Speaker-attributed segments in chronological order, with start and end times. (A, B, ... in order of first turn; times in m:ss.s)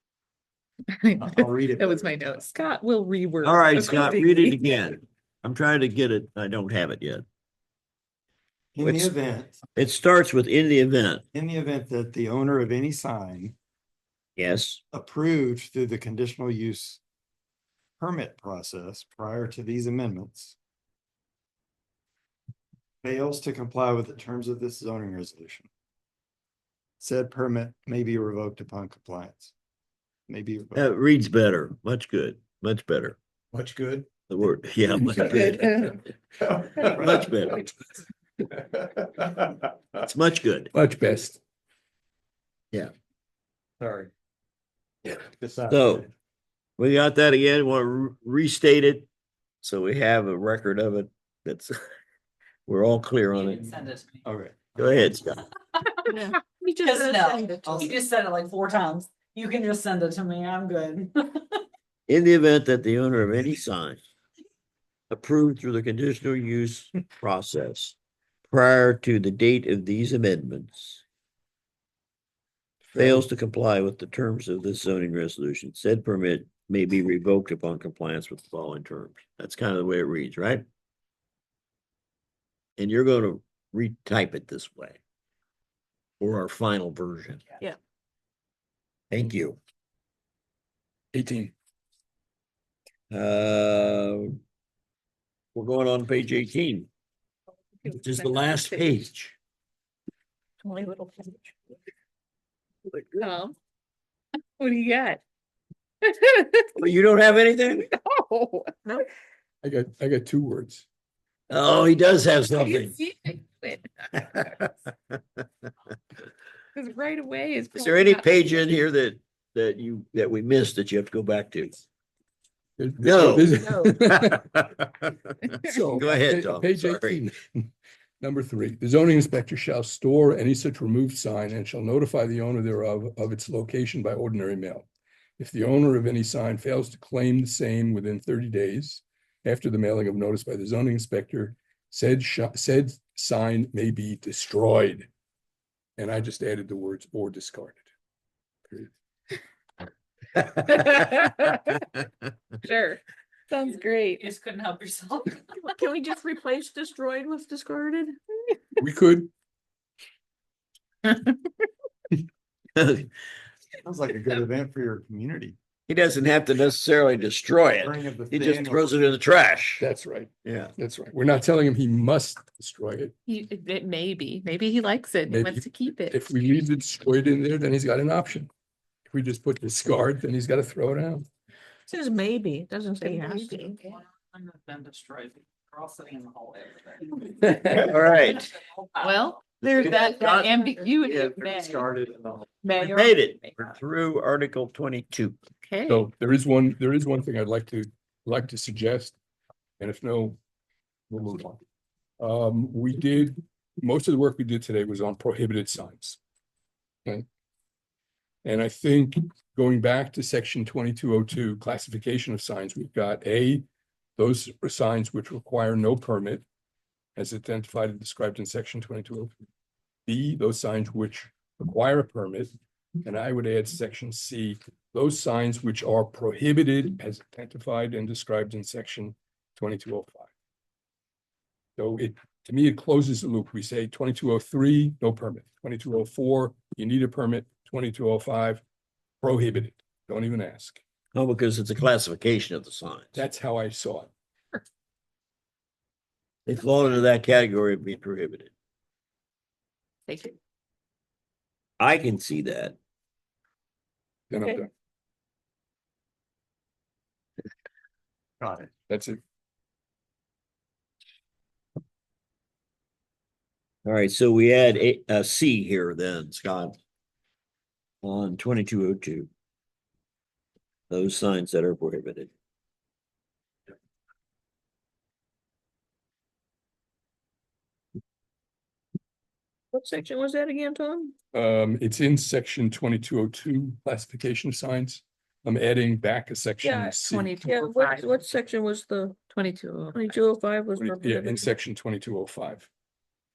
0:00.9-0:04.6 A
0:01.2-0:02.5 B
0:03.4-0:07.2 C
0:08.7-0:09.6 B
0:08.8-0:09.1 C
0:09.8-0:11.2 C
0:11.3-0:13.5 B
0:14.4-0:14.8 C
0:14.9-0:17.0 B
0:18.0-0:20.5 B
0:23.0-0:25.7 B
0:27.0-0:29.5 B
0:30.3-0:30.8 B
0:30.7-0:33.2 C
0:33.5-0:34.0 B
0:34.3-0:36.0 C
0:35.3-0:35.6 D
0:36.5-0:37.6 B
0:36.8-0:37.6 C
0:40.0-0:40.7 C
0:40.7-0:41.4 E
0:43.8-0:44.1 B
0:45.0-0:46.0 B
0:45.7-0:46.1 C
0:46.8-0:49.1 C
0:49.6-0:51.7 C
0:52.7-0:53.7 C
0:53.3-0:54.2 F
0:54.2-0:55.2 B
0:54.8-0:55.4 C
0:56.1-0:57.9 D
0:56.8-1:01.6 F
0:57.1-0:57.9 A
1:02.1-1:04.0 C
1:05.1-1:08.0 C
1:08.5-1:11.0 C
1:12.8-1:13.2 E
1:12.9-1:20.6 C
1:22.8-1:25.0 C
1:26.2-1:27.4 C
1:29.1-1:29.6 C
1:31.1-1:31.5 E
1:33.1-1:34.4 C
1:35.5-1:36.9 C
1:37.8-1:38.8 A
1:38.0-1:39.4 C
1:40.6-1:41.5 D
1:42.9-1:43.3 C
1:43.2-1:43.5 A
1:44.6-1:45.2 A
1:46.7-1:47.9 C
1:48.3-1:49.0 A
1:49.6-1:50.8 E
1:51.5-1:53.0 C
1:52.6-1:53.8 A
1:54.3-1:54.7 C
1:56.7-1:58.6 A
1:57.7-2:01.8 C
2:02.8-2:04.5 E
2:03.0-2:04.8 C
2:05.5-2:07.7 E
2:05.9-2:07.2 C
2:08.2-2:14.9 E
2:15.4-2:25.1 E
2:26.0-2:27.8 E
2:31.1-2:31.6 D
2:32.7-2:33.0 D
2:33.5-2:34.2 D
2:33.7-2:35.5 F
2:35.6-2:38.1 D
2:38.8-2:39.3 E
2:42.8-2:43.1 C
2:43.8-2:45.6 B
2:45.9-2:49.8 C
2:47.8-2:49.0 B
2:49.8-2:53.1 E
2:50.4-2:50.7 C
2:53.2-2:56.2 A
2:55.2-2:58.5 E
2:59.1-3:01.3 E
3:01.9-3:03.8 D
3:01.9-3:03.8 A
3:03.3-3:09.2 F
3:07.7-3:08.5 C
3:09.0-3:11.9 A
3:09.6-3:11.5 C
3:09.9-3:10.9 F
3:12.6-3:13.8 A
3:12.7-3:15.4 C
3:15.6-3:16.0 A
3:15.9-3:19.2 E
3:19.8-3:20.4 E
3:21.1-3:21.6 E
3:22.2-3:26.2 E
3:28.4-3:33.6 E
3:34.2-3:36.4 E
3:37.2-3:39.3 E
3:40.1-3:50.3 E
3:51.8-3:58.6 E
3:59.2-4:00.8 E
4:01.1-4:03.1 C
4:03.1-4:04.1 E
4:06.4-4:08.5 C
4:10.1-4:10.4 A
4:11.8-4:12.8 C
4:14.3-4:14.7 E
4:18.4-4:18.7 B
4:18.9-4:19.2 E
4:23.8-4:26.8 C
4:28.0-4:29.3 C
4:30.9-4:32.3 C
4:39.7-4:41.2 D
4:41.3-4:47.5 E
4:46.6-4:49.3 D
4:47.0-4:48.2 A
4:49.3-4:50.2 A
4:49.9-4:51.5 D
4:50.8-4:52.7 E